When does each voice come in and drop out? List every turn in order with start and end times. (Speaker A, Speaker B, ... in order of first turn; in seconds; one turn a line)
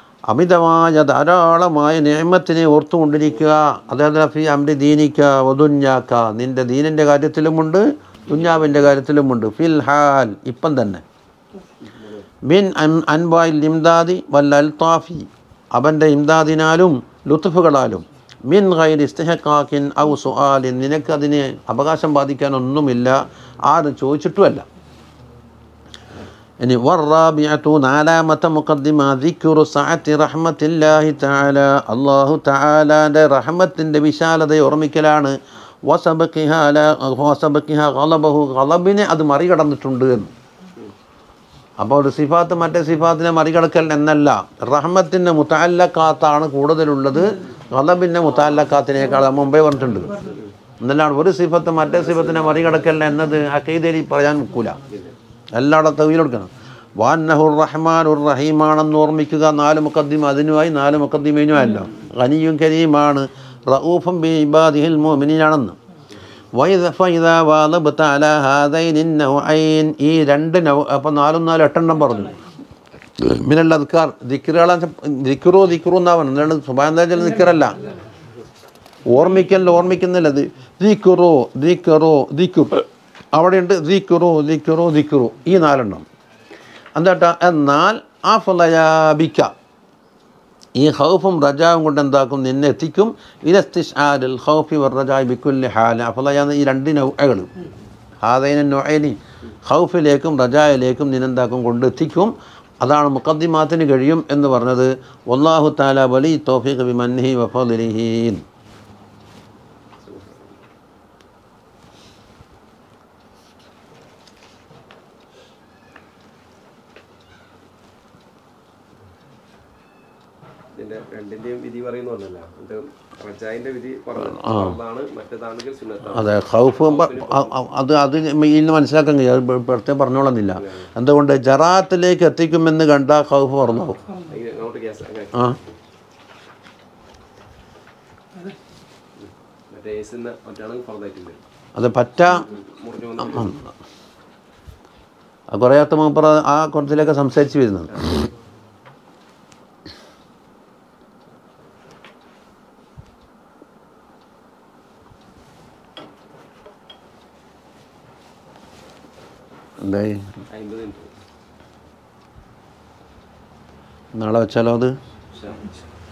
Speaker A: 0.3-11.0
Speaker B: 11.8-12.2
Speaker A: 12.4-24.6
Speaker A: 26.6-40.3
Speaker A: 41.8-50.2
Speaker A: 50.8-54.8
Speaker B: 51.9-52.7
Speaker B: 54.9-55.1
Speaker A: 55.5-65.8
Speaker A: 66.5-72.4
Speaker A: 73.2-77.8
Speaker A: 79.1-86.0
Speaker A: 87.0-89.5
Speaker A: 90.7-97.5
Speaker A: 98.2-108.4
Speaker B: 110.0-110.6
Speaker B: 120.7-127.5
Speaker A: 124.2-124.8
Speaker A: 126.0-134.0
Speaker B: 134.3-135.7
Speaker B: 139.2-141.4
Speaker A: 141.8-142.4
Speaker B: 142.4-143.6
Speaker A: 143.2-143.5
Speaker A: 145.5-148.2
Speaker A: 159.8-160.3
Speaker B: 160.5-161.2
Speaker A: 164.2-164.9
Speaker B: 165.3-165.6